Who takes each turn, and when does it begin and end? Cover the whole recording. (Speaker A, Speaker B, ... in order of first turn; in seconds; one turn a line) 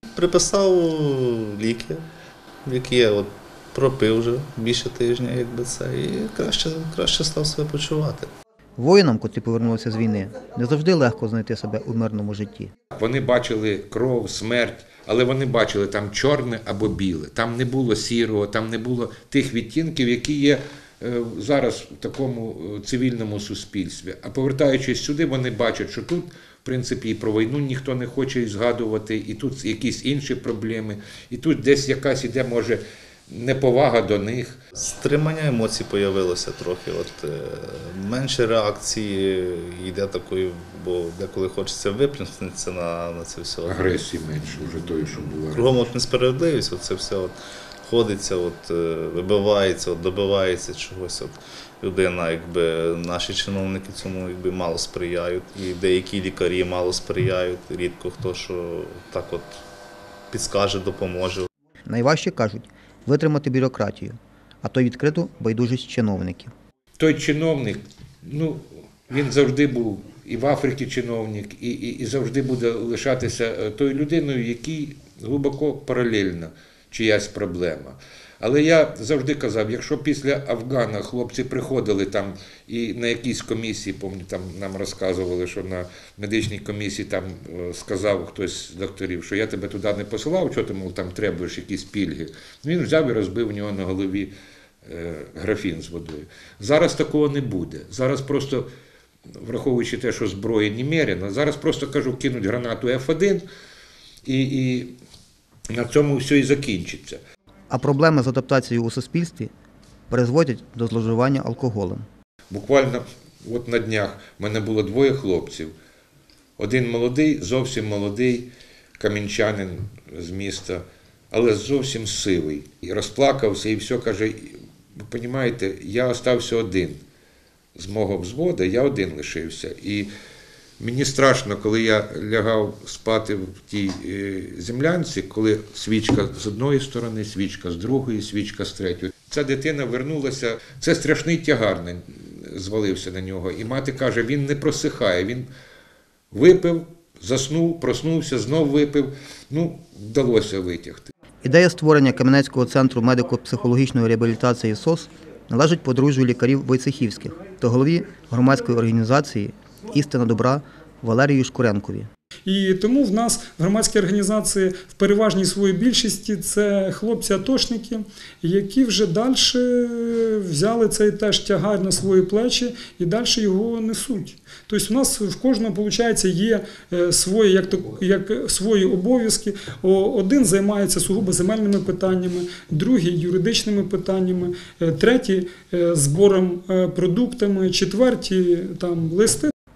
Speaker A: 0.1-2.0
Speaker A: 2.6-8.3
Speaker B: 8.8-12.7
Speaker C: 12.9-34.6
Speaker A: 34.8-44.0
Speaker C: 43.6-45.7
Speaker A: 45.5-59.6
Speaker A: 60.3-61.5
Speaker B: 61.9-66.5
Speaker C: 67.0-94.3
Speaker C: 94.8-98.7
Speaker C: 99.4-103.5
Speaker C: 104.3-105.0
Speaker C: 105.7-107.2
Speaker B: 107.7-109.5
Speaker B: 110.1-112.0
Speaker C: 112.5-115.7
Speaker C: 116.6-127.0
Speaker C: 127.8-130.1
Speaker C: 130.8-145.5
Speaker C: 146.3-151.1
Speaker B: 151.4-162.1
Speaker D: 162.5-189.5